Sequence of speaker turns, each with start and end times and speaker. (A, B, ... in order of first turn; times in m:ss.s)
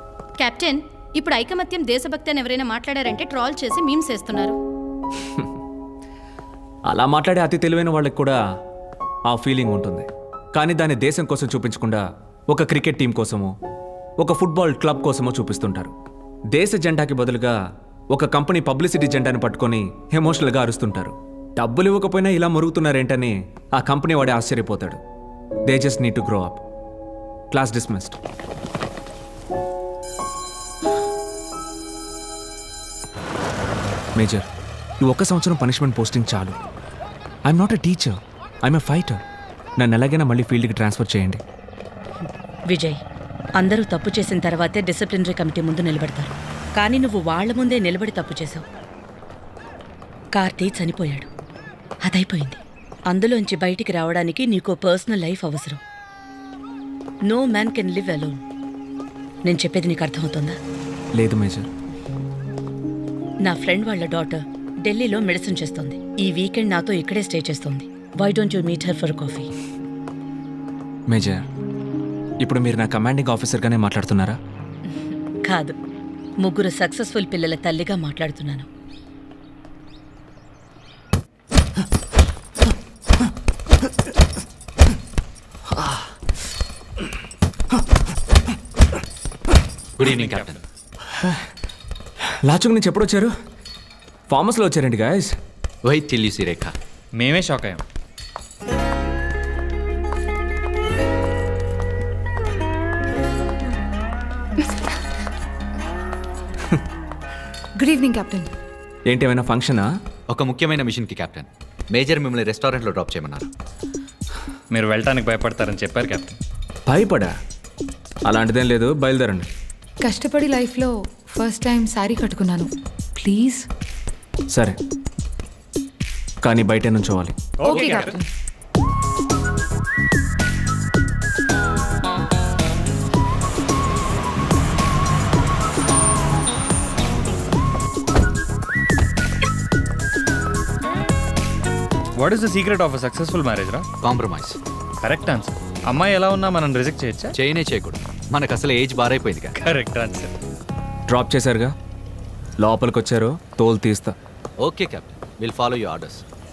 0:00.4-0:04.6 A
0:06.9-0:08.4 B
0:09.3-0:13.6 B
0:14.2-0:15.9 B
0:16.5-0:17.6 B
0:18.1-0:25.0 B
0:25.6-0:26.6 B
0:27.5-0:28.2 B
0:34.2-0:34.4 B
0:35.0-0:36.6 B
0:37.4-0:39.2 B
0:39.8-0:41.4 B
0:42.7-0:43.0 C
0:43.6-0:48.6 C
0:50.3-0:51.3 C
0:52.0-0:55.8 C
0:57.2-0:58.4 C
0:59.4-1:00.6 C
1:01.1-1:01.7 B
1:03.4-1:09.5 C
1:11.1-1:11.4 B
1:12.4-1:14.4 B
1:14.9-1:15.7 C
1:16.4-1:18.7 C
1:30.0-1:30.6 D
1:30.0-1:30.6 E
1:32.4-1:33.3 B
1:34.3-1:35.4 B
1:35.8-1:36.7 E
1:37.2-1:37.8 D
1:47.8-1:48.5 F
1:49.1-1:49.9 B
1:50.3-1:53.5 E
1:54.7-1:56.4 D
1:56.9-1:57.3 B
1:58.3-1:59.5 B
2:00.0-2:02.7 F
2:03.2-2:03.6 F
2:04.5-2:04.8 B
2:06.4-2:07.4 B
2:07.6-2:08.2 D
2:07.6-2:08.2 F
2:22.2-2:23.9 D
2:24.0-2:24.6 E
2:25.0-2:27.4 D
2:27.4-2:29.6 E
2:29.6-2:30.3 D
2:31.1-2:31.7 B
2:32.6-2:34.1 B
2:34.6-2:36.2 E